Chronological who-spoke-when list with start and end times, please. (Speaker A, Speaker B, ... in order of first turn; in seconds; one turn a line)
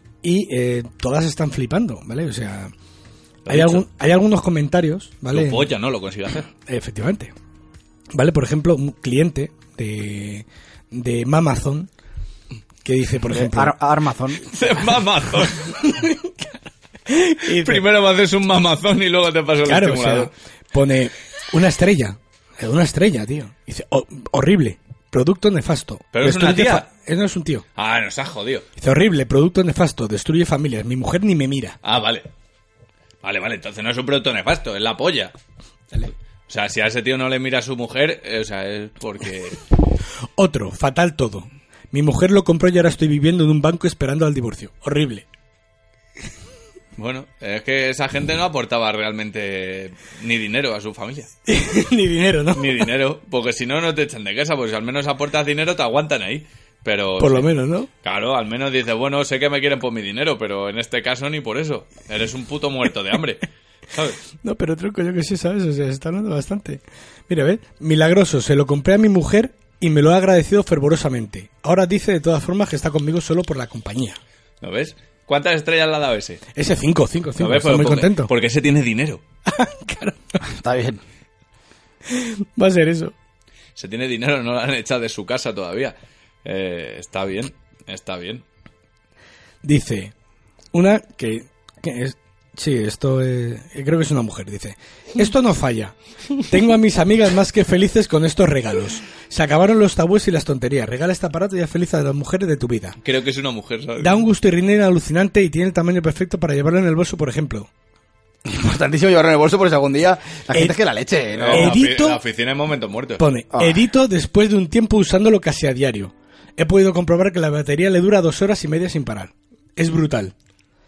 Speaker A: 0.2-2.7
Speaker B: 3.5-3.9
Speaker A: 3.5-5.7
Speaker B: 5.3-6.5
Speaker A: 6.7-7.3
Speaker A: 8.1-11.9
Speaker A: 12.8-13.7
Speaker C: 13.3-14.5
Speaker B: 14.5-16.0
Speaker A: 15.8-16.3
Speaker A: 17.1-17.8
Speaker B: 17.5-20.3
Speaker A: 19.6-27.6
Speaker B: 26.1-26.9
Speaker B: 27.8-28.7
Speaker A: 28.8-31.8
Speaker B: 31.8-32.3
Speaker B: 33.2-35.3
Speaker B: 36.5-39.6
Speaker A: 40.4-45.3
Speaker B: 47.0-51.3
Speaker A: 51.5-52.9
Speaker B: 52.5-57.5
Speaker A: 57.2-57.9
Speaker B: 58.0-64.2
Speaker A: 64.4-74.2
Speaker B: 74.6-76.4
Speaker A: 76.5-78.3
Speaker B: 77.4-79.2
Speaker A: 79.5-80.4
Speaker C: 80.4-81.0
Speaker A: 82.1-83.1
Speaker B: 83.8-88.4
Speaker A: 89.6-90.1
Speaker A: 90.7-103.0
Speaker B: 103.0-104.2
Speaker A: 104.0-107.7
Speaker C: 108.5-111.8
Speaker B: 111.3-113.2
Speaker A: 111.5-112.2
Speaker A: 113.2-120.3
Speaker C: 113.5-113.8